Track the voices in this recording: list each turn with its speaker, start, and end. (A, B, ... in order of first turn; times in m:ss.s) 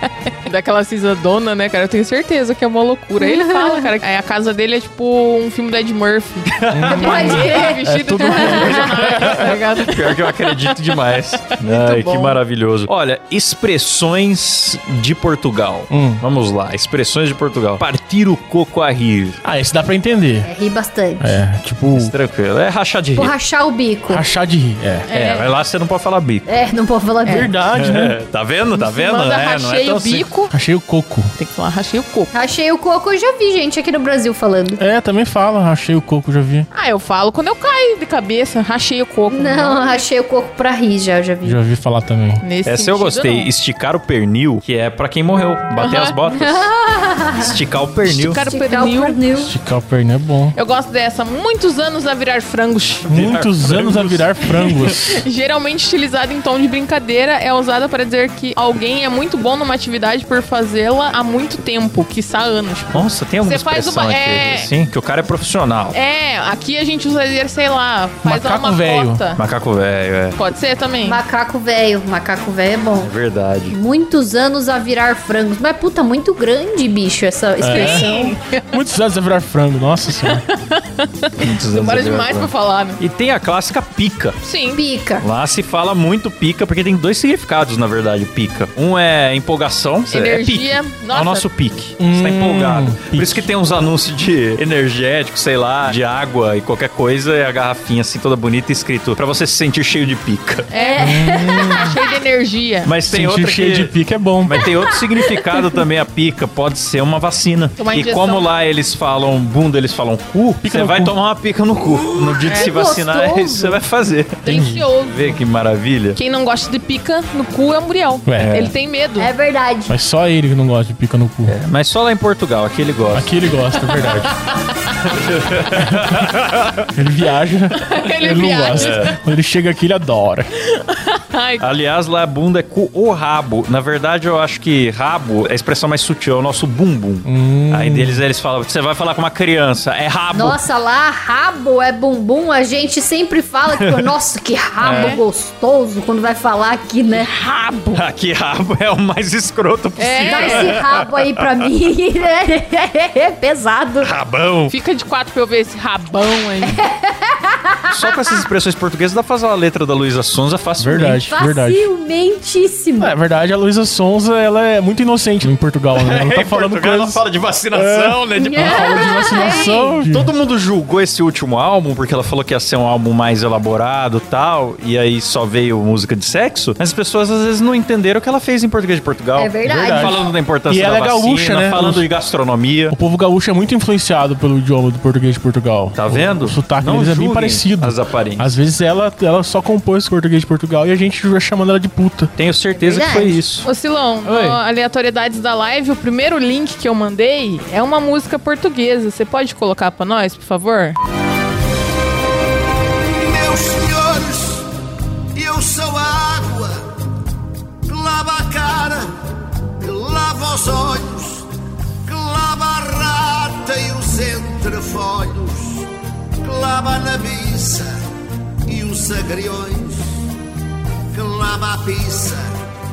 0:00.3-0:10.8 A
0:03.2-0:03.9 B
0:06.5-0:07.5 C
0:06.7-0:09.1 D
0:06.9-0:08.9 B
0:08.4-0:19.4 C
0:11.5-0:12.4 A
0:15.9-0:16.2 D
0:19.4-0:20.5 D
0:20.4-0:21.4 B
0:21.2-0:22.1 D
0:21.9-0:23.3 C
0:23.2-0:24.2 B
0:24.1-0:25.1 D
0:25.1-0:25.5 A
0:25.1-0:26.5 C
0:26.5-0:27.5 B
0:27.3-0:28.2 D
0:27.7-0:30.3 C
0:28.7-0:30.5 A
0:30.5-0:31.3 D
0:31.4-0:32.3 A
0:32.3-0:34.8 B
0:34.8-0:36.7 D
0:36.7-0:40.0 A
0:39.3-0:41.6 B
0:41.4-0:42.4 D
0:42.4-0:43.5 A
0:42.7-0:46.7 C
0:45.8-0:46.2 A
0:46.3-0:47.6 B
0:47.4-0:48.4 C
0:48.0-0:49.2 A
0:48.2-0:49.5 B
0:49.4-0:50.6 D
0:50.6-0:53.1 A
0:53.1-0:55.0 C
0:53.1-0:55.2 D
0:54.9-1:04.7 A
1:02.9-1:06.0 C
1:05.9-1:09.4 A
1:08.2-1:09.2 D
1:09.4-1:10.4 C
1:10.4-1:11.2 A
1:11.0-1:13.1 B
1:13.0-1:13.8 C
1:13.7-1:18.3 B
1:17.6-1:20.4 D
1:17.7-1:18.6 A
1:20.2-1:23.0 A
1:21.4-1:24.4 C
1:24.4-1:24.8 A
1:24.8-1:25.2 B
1:25.2-1:40.7 C
1:30.1-1:31.5 A
1:32.0-1:33.5 D
1:40.7-1:42.9 A
1:40.7-1:42.0 B
1:41.0-1:41.9 D
1:42.8-1:56.2 C
1:43.1-1:44.7 D
1:44.8-1:45.8 B
1:47.8-1:48.5 A
1:50.6-1:51.2 D
1:52.0-1:53.8 B
1:54.4-1:55.4 A
1:54.5-1:54.8 D
1:56.2-1:59.3 A
1:58.3-1:58.7 D
1:58.4-1:58.7 C
1:59.2-2:00.0 B
1:59.9-2:01.6 D
2:01.5-2:03.3 C
2:03.1-2:04.3 D
2:05.0-2:06.9 C
2:05.8-2:06.2 D
2:06.9-2:10.5 D
2:07.8-2:09.1 A
2:08.7-2:09.2 C
2:10.6-2:11.7 A
2:11.6-2:20.6 C
2:17.2-2:18.2 D
2:20.3-2:27.3 B
2:23.7-2:24.1 C
2:24.8-2:25.2 C
2:24.9-2:25.2 A
2:27.1-2:28.0 A
2:27.9-2:31.6 C
2:30.0-2:30.8 A
2:30.3-2:34.1 B
2:34.0-2:34.7 C
2:34.7-2:36.8 A
2:36.6-2:38.2 B
2:37.9-2:41.2 C
2:40.8-2:41.9 D
2:41.3-2:43.2 B
2:43.0-2:47.2 D
2:46.0-3:03.0 C
2:47.7-2:50.3 D
2:48.4-2:49.9 B
2:59.4-3:00.2 B
2:59.6-3:02.0 D
3:02.9-3:12.3 D
3:06.0-3:08.5 C
3:12.4-3:13.7 C
3:12.7-3:13.4 B
3:13.6-3:21.0 A
3:23.2-3:24.7 E
3:25.4-3:26.8 E
3:27.9-3:29.1 E
3:29.8-3:31.5 E
3:32.0-3:35.9 E
3:36.4-3:37.9 E
3:38.7-3:40.1 E
3:41.1-3:42.5 E